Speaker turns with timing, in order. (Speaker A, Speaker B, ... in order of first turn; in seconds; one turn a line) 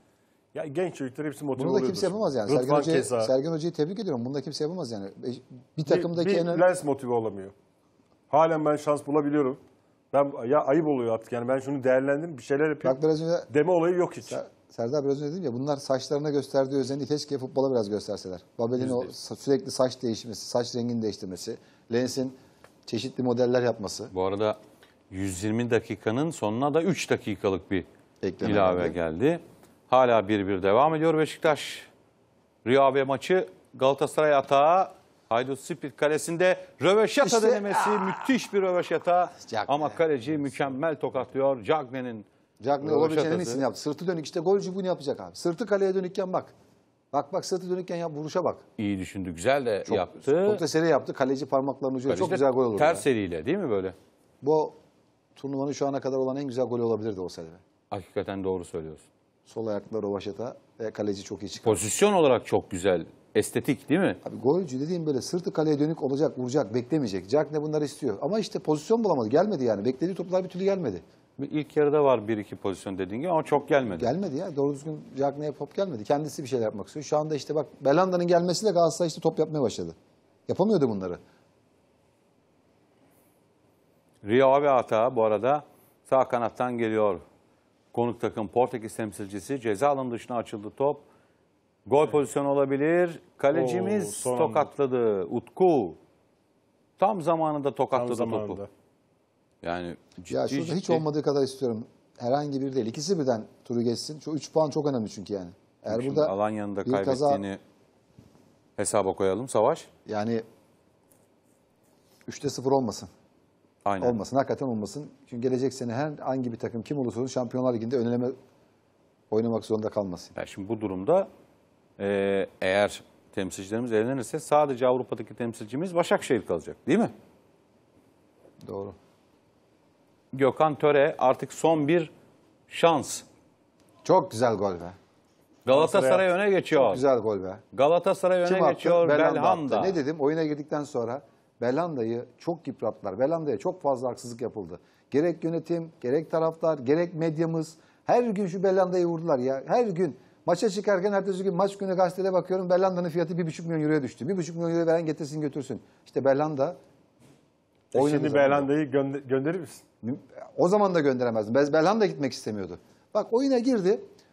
Speaker A: 0.5-3.3
Speaker B: 1.6-6.7
Speaker A: 5.8-7.5
Speaker A: 8.3-9.6
Speaker A: 10.1-14.4
Speaker B: 12.8-13.5
Speaker B: 14.3-24.1
Speaker A: 18.8-19.1
Speaker C: 24.1-24.6
Speaker C: 25.1-27.9
Speaker B: 28.2-29.0
Speaker C: 28.4-31.9
Speaker C: 32.6-42.3
Speaker B: 37.2-38.1
Speaker B: 39.4-40.0
Speaker B: 42.6-46.5
Speaker C: 42.8-43.6
Speaker B: 47.1-48.6
Speaker C: 48.8-50.6
Speaker B: 49.9-53.1
Speaker C: 52.1-54.0
Speaker B: 54.4-54.7
Speaker B: 55.4-57.6
Speaker C: 57.9-59.0
Speaker B: 59.5-61.8
Speaker C: 61.6-64.2
Speaker B: 64.2-71.0
Speaker C: 71.4-74.1
Speaker B: 74.0-80.0
Speaker B: 80.5-81.2
Speaker C: 84.2-87.2
Speaker C: 87.9-91.0
Speaker C: 91.9-96.0
Speaker A: 93.5-94.7
Speaker C: 97.0-98.6
Speaker A: 97.9-98.7
Speaker C: 99.6-101.0
Speaker B: 100.3-106.3
Speaker C: 105.9-107.6
Speaker B: 106.9-107.4
Speaker C: 108.8-109.9
Speaker B: 110.1-110.4
Speaker B: 112.3-113.1
Speaker C: 113.8-114.2
Speaker B: 114.0-118.3
Speaker B: 119.3-120.3
Speaker C: 120.3-121.3
Speaker C: 122.0-127.1
Speaker B: 128.6-128.9
Speaker C: 130.3-132.1
Speaker C: 132.7-133.2
Speaker B: 134.1-134.9
Speaker C: 135.7-137.0
Speaker A: 135.7-136.2
Speaker B: 136.7-137.6
Speaker C: 137.7-140.0
Speaker B: 138.4-156.8
Speaker A: 157.9-159.8
Speaker B: 157.9-158.7
Speaker B: 160.0-164.0